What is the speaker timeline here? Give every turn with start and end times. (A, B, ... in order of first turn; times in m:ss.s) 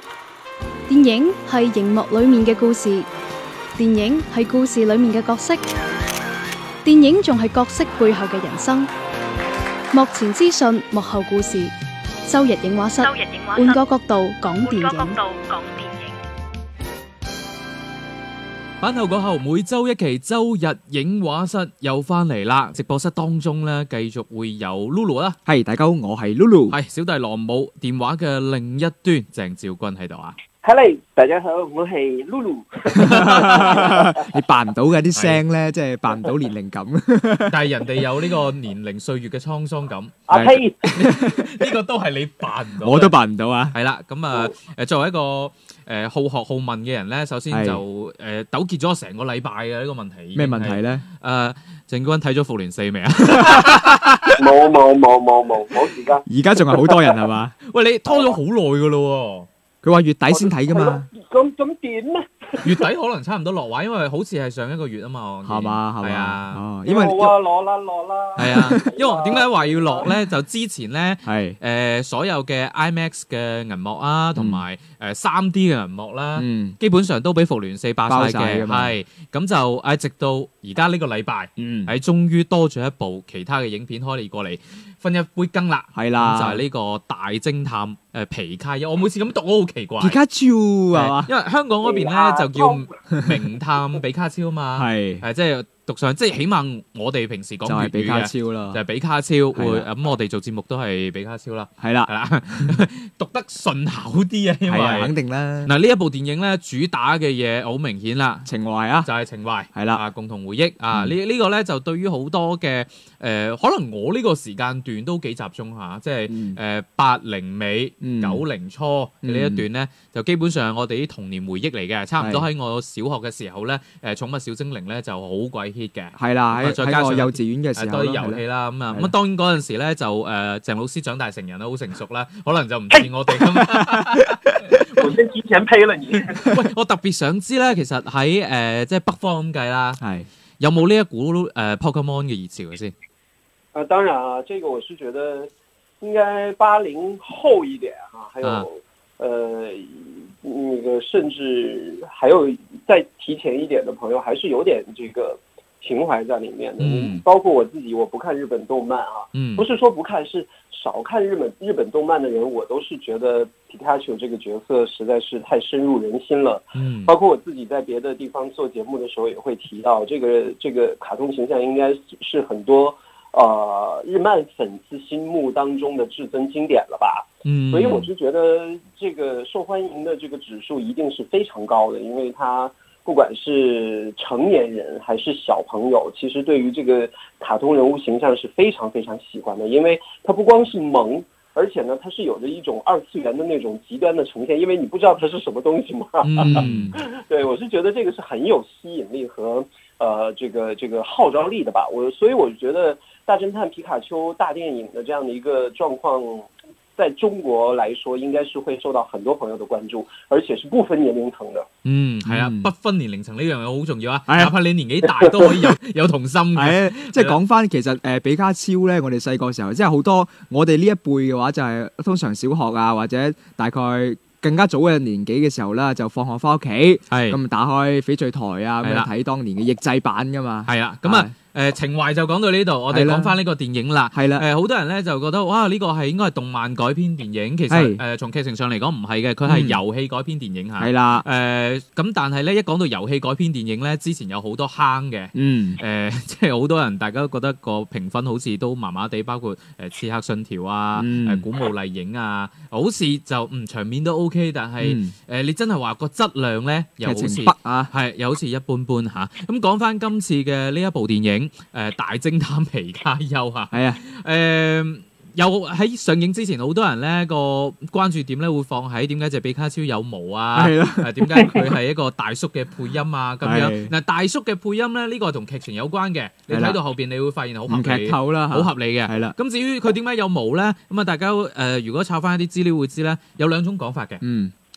0:00.9-0:03.1 A
0:03.8-0:05.6 A
0:06.8-0:08.9 A
0:09.9-0:11.7 A
0:12.2-0:15.2 A
0:13.0-0:13.9 B
0:14.5-0:16.2 B
0:18.8-0:25.4 C
0:25.4-0:26.8 D
0:26.7-0:30.4 C
0:30.6-0:34.3 E
0:32.9-0:34.0 C
0:33.0-0:37.7 D
0:35.2-0:35.4 C
0:37.5-0:40.2 C
0:40.3-0:40.9 E
0:40.3-0:41.5 D
0:40.9-0:43.1 C
0:42.8-0:43.7 D
0:43.7-0:54.4 C
0:47.5-0:47.8 D
0:50.3-0:51.0 D
0:53.4-0:53.7 D
0:54.3-0:57.2 E
0:56.3-0:57.5 D
0:57.6-0:59.5 C
0:58.1-0:58.4 E
0:59.8-1:01.0 D
1:00.3-1:02.8 E
1:02.6-1:06.6 C
1:05.4-1:07.3 D
1:06.8-1:10.1 E
1:08.4-1:30.2 C
1:08.4-1:08.8 D
1:11.2-1:11.6 D
1:14.4-1:14.6 D
1:16.4-1:16.8 D
1:18.1-1:18.9 D
1:21.6-1:21.9 D
1:25.9-1:26.6 D
1:30.0-1:31.3 D
1:30.9-1:45.1 C
1:31.8-1:32.9 E
1:34.8-1:35.2 D
1:37.6-1:38.8 D
1:39.5-1:39.9 D
1:41.8-1:42.8 D
1:44.7-1:45.7 D
1:45.6-1:48.5 C
1:48.4-1:49.1 D
1:49.0-2:15.1 C
1:49.7-1:50.0 D
1:56.3-1:56.6 D
1:58.0-1:58.4 D
1:59.2-1:59.6 D
2:02.2-2:02.4 D
2:06.2-2:09.1 D
2:15.0-2:16.5 E
2:16.4-2:20.0 C
2:20.0-2:20.3 D
2:20.6-2:22.9 C
2:23.7-2:25.5 E
2:26.0-3:31.7 E
2:36.8-2:37.2 C
2:39.3-2:39.6 C
2:46.7-2:47.1 C
2:57.4-2:58.1 C
3:16.2-3:17.0 C
3:16.5-3:17.0 D
3:31.8-3:37.4 C
3:32.2-3:32.7 D
3:34.3-3:34.5 D
3:36.5-3:51.3 D
3:47.1-3:47.4 C
3:48.8-3:49.1 C
3:50.6-4:44.2 C
3:52.9-3:53.4 D
3:54.1-3:54.4 D
3:57.7-3:58.0 D
3:59.4-3:59.8 D
4:00.8-4:01.2 D
4:05.3-4:05.8 D
4:11.0-4:11.4 D
4:14.8-4:15.1 D
4:17.0-4:17.9 D
4:23.7-4:24.0 D
4:30.5-4:31.7 D
4:33.4-4:33.9 D
4:36.5-4:36.8 D
4:37.7-4:39.3 D
4:44.2-4:44.5 D